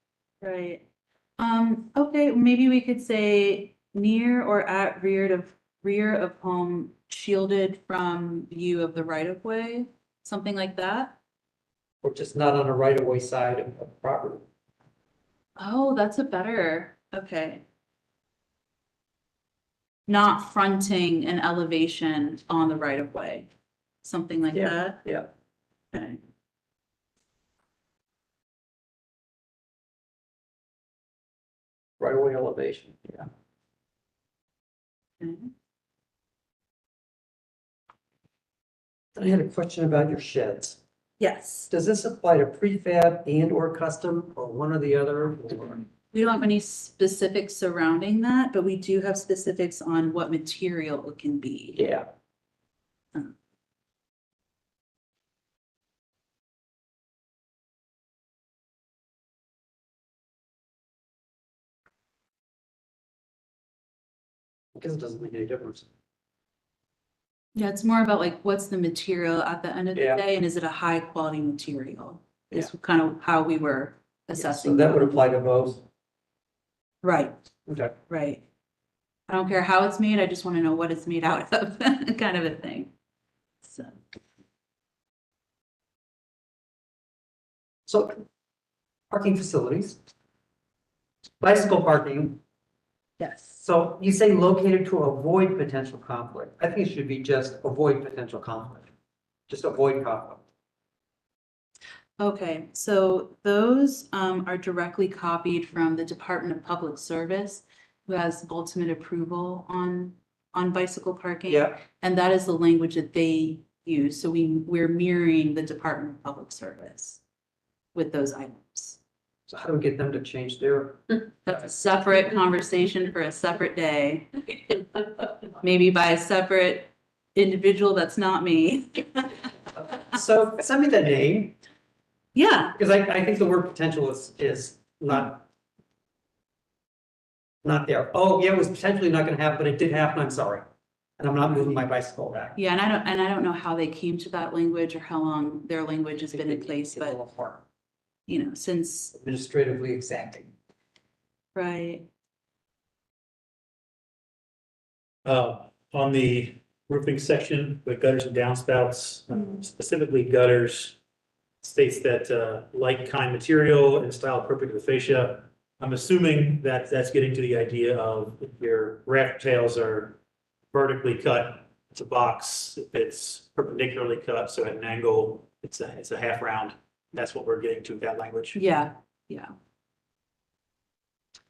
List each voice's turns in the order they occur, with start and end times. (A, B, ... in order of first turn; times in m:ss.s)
0:00.4-0:00.8 A
0:01.4-0:11.2 A
0:12.0-0:14.4 B
0:15.6-0:17.6 A
0:20.1-0:23.5 A
0:24.0-0:25.0 A
0:24.5-0:25.3 B
0:25.9-0:26.2 A
0:32.0-0:33.3 B
0:35.2-0:35.5 A
0:39.2-0:40.8 B
0:41.2-0:41.7 A
0:41.7-0:45.9 B
0:46.1-0:51.8 A
0:51.8-0:52.1 B
1:04.8-1:05.9 B
1:07.6-1:15.1 A
1:10.0-1:10.2 B
1:14.4-1:15.8 B
1:17.0-1:17.3 A
1:17.7-1:17.9 B
1:18.1-1:18.4 A
1:19.3-1:22.9 A
1:23.6-1:24.0 A
1:27.9-1:28.2 B
1:29.1-1:30.0 B
1:31.4-1:32.4 B
1:33.2-1:33.6 A
1:33.6-1:38.9 B
1:39.5-1:40.4 B
1:42.2-1:57.2 A
1:51.5-1:51.8 B
1:57.9-1:59.0 A
1:59.5-2:01.0 B
2:01.4-2:04.8 A
2:05.6-2:09.5 A
2:10.0-2:11.6 B
2:12.4-2:12.7 A
2:12.8-2:15.5 B
2:17.6-2:20.6 B
2:21.2-2:22.6 B
2:22.6-2:27.2 A
2:26.3-2:27.6 B
2:28.3-2:29.1 A
2:29.2-2:30.5 B
2:31.6-2:32.1 A
2:35.2-2:41.0 C
2:41.6-2:50.2 C
2:50.7-2:58.7 C
2:58.6-2:59.5 A